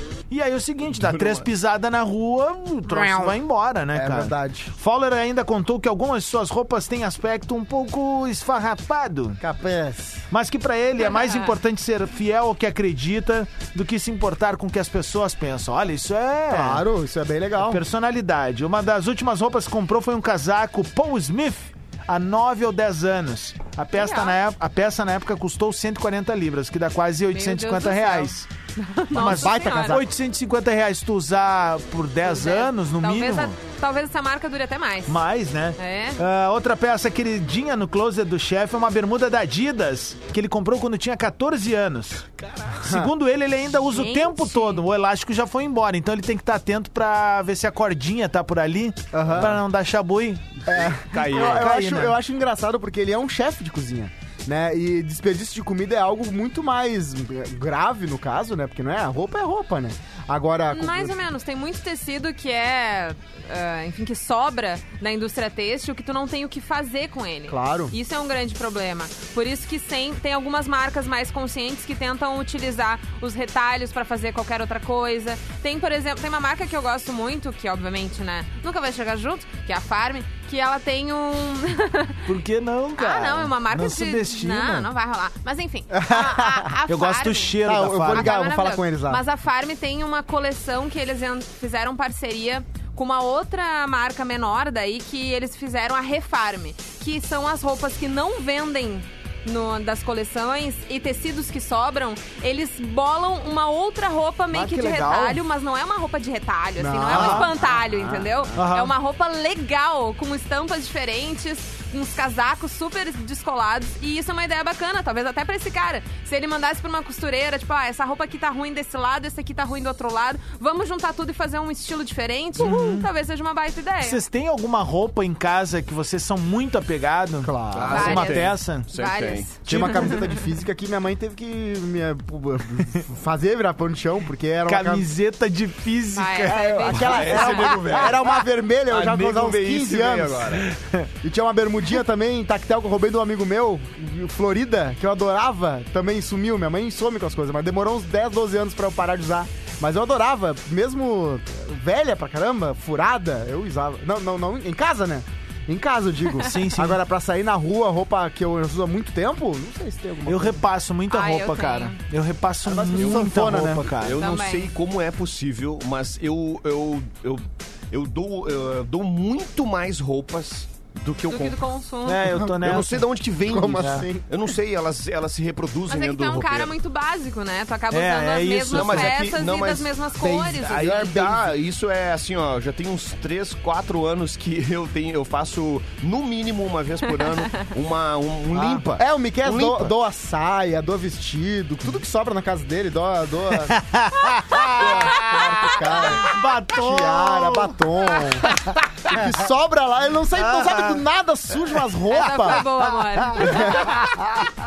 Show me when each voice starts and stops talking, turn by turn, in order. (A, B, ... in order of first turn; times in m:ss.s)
0:00.3-0:09.4 A
0:00.9-0:01.5 B
0:02.9-0:03.4 C
0:03.9-0:04.7 C
0:09.4-0:10.3 C
0:10.3-0:16.8 A
0:11.0-0:11.6 D
0:16.5-0:17.8 C
0:17.6-0:28.5 A
0:24.0-0:24.4 D
0:27.3-0:30.1 D
0:29.1-0:33.6 A
0:29.1-0:30.1 C
0:32.2-0:35.2 D
0:35.1-0:42.3 A
0:35.8-0:36.2 D
0:42.4-0:42.8 B
0:42.8-0:50.5 A
0:42.8-0:43.1 C
0:43.9-0:44.8 D
0:49.1-0:49.6 C
0:50.7-1:01.2 C
0:50.8-0:51.8 B
0:51.2-0:52.2 A
1:00.7-1:22.3 D
1:07.5-1:08.0 C
1:22.3-1:24.9 A
1:23.0-2:04.2 D
1:25.9-1:26.7 C
1:26.9-1:28.4 A
1:27.6-1:29.2 C
1:44.5-1:45.4 A
1:46.8-1:48.6 C
1:47.1-1:47.5 A
1:48.6-1:48.9 A
2:02.6-2:03.1 A
2:04.0-2:08.9 A
2:07.4-2:08.2 C
2:07.7-2:09.6 B
2:07.9-2:10.4 D
2:09.7-2:15.1 C
2:09.7-2:10.1 A
2:14.7-2:16.7 A
2:16.2-2:17.8 D
2:16.5-2:20.6 C
2:16.9-2:18.2 B
2:18.9-2:20.6 B
2:20.6-2:21.1 A
2:21.2-2:40.6 C
2:36.4-2:37.0 A
2:40.3-2:44.2 A
2:41.1-2:42.0 D
2:42.6-2:43.9 C
2:42.9-2:43.3 B
2:43.8-2:51.6 B
2:44.2-2:44.7 D
2:51.3-2:52.4 D
2:52.1-2:53.0 A
2:52.4-2:54.3 C
2:52.6-2:56.7 B
2:55.9-3:01.1 D
2:57.9-2:59.2 A
2:58.7-3:10.0 B
3:00.2-3:01.5 C
3:08.5-3:08.9 A
3:09.0-3:13.8 C
3:13.7-3:15.3 A
3:14.5-3:22.6 C
3:16.2-3:19.2 A
3:20.4-3:21.0 A
3:22.1-3:24.0 D
3:22.5-3:24.2 A
3:23.4-3:24.1 C